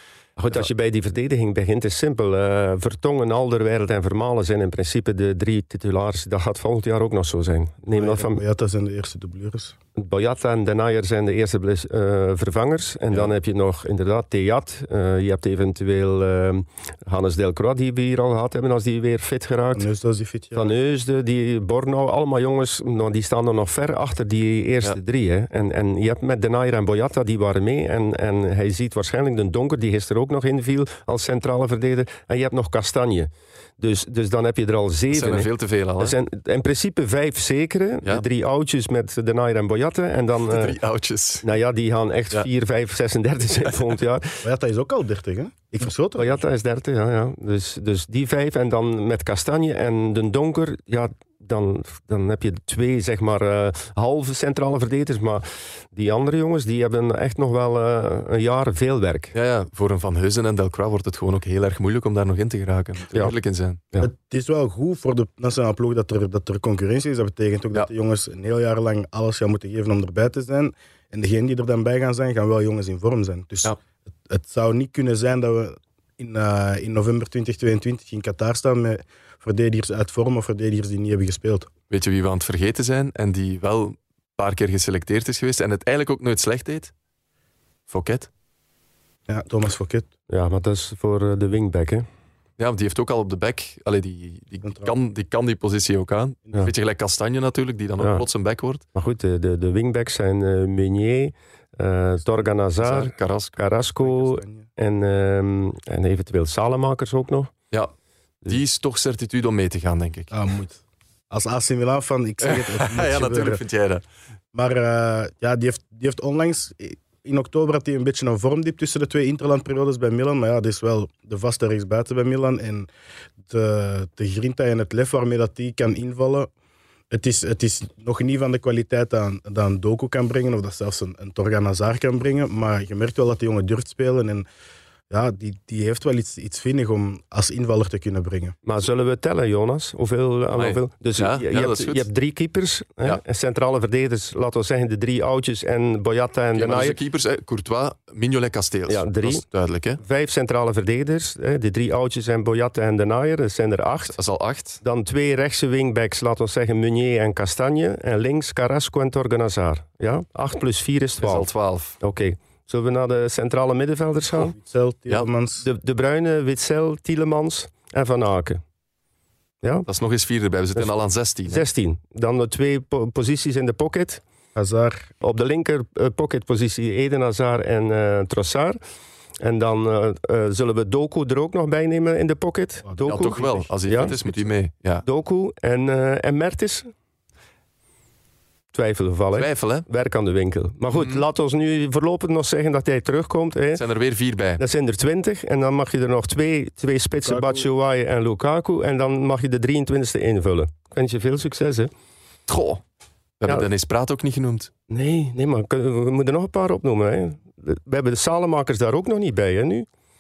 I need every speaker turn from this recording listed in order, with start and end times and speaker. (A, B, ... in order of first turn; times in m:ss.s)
0:00.4-0:08.4 A
0:07.9-0:09.8 B
0:10.0-0:19.9 A
0:19.8-0:20.7 B
0:20.5-0:40.8 A
0:35.1-0:36.2 C
0:40.5-0:41.4 C
0:41.4-0:44.4 A
0:44.4-0:46.4 B
0:46.2-0:59.3 A
0:59.3-1:03.8 C
1:04.0-1:13.8 B
1:14.3-1:21.7 B
1:21.9-1:26.9 C
1:27.9-1:28.3 C
1:29.3-1:30.1 B
1:30.3-1:32.1 A
1:32.6-1:38.8 C
1:34.6-1:35.0 B
1:38.0-1:38.3 A
1:39.0-1:47.5 A
1:42.8-1:43.6 C
1:44.0-1:44.7 B
1:48.5-1:50.3 C
1:50.3-1:53.6 B
1:52.4-1:54.0 C
1:54.5-2:02.9 B
2:03.5-2:06.5 B
2:07.1-2:14.5 B
2:15.1-2:18.6 B
2:18.6-2:27.0 A
2:20.6-2:22.1 C
2:26.6-2:30.0 C
2:28.9-2:29.4 A
2:30.0-2:34.2 A
2:34.1-2:34.8 C
2:34.8-2:44.6 A
2:41.2-2:42.0 C
2:44.4-2:45.6 B
2:45.6-2:48.6 A
2:49.6-2:49.9 A
2:49.9-2:51.6 C
2:51.5-2:54.2 A
2:54.6-2:55.1 B
2:55.2-2:58.8 A
2:59.4-3:04.5 A
3:02.8-3:04.2 B
3:03.0-3:05.0 C
3:05.0-3:06.9 A
3:08.7-3:13.8 A
3:09.3-3:09.9 C
3:10.9-3:11.2 C
3:13.8-3:14.6 C
3:14.6-3:21.9 A
3:17.2-3:17.6 B
3:22.5-3:22.8 C
3:23.4-3:24.7 C
3:24.9-3:29.9 A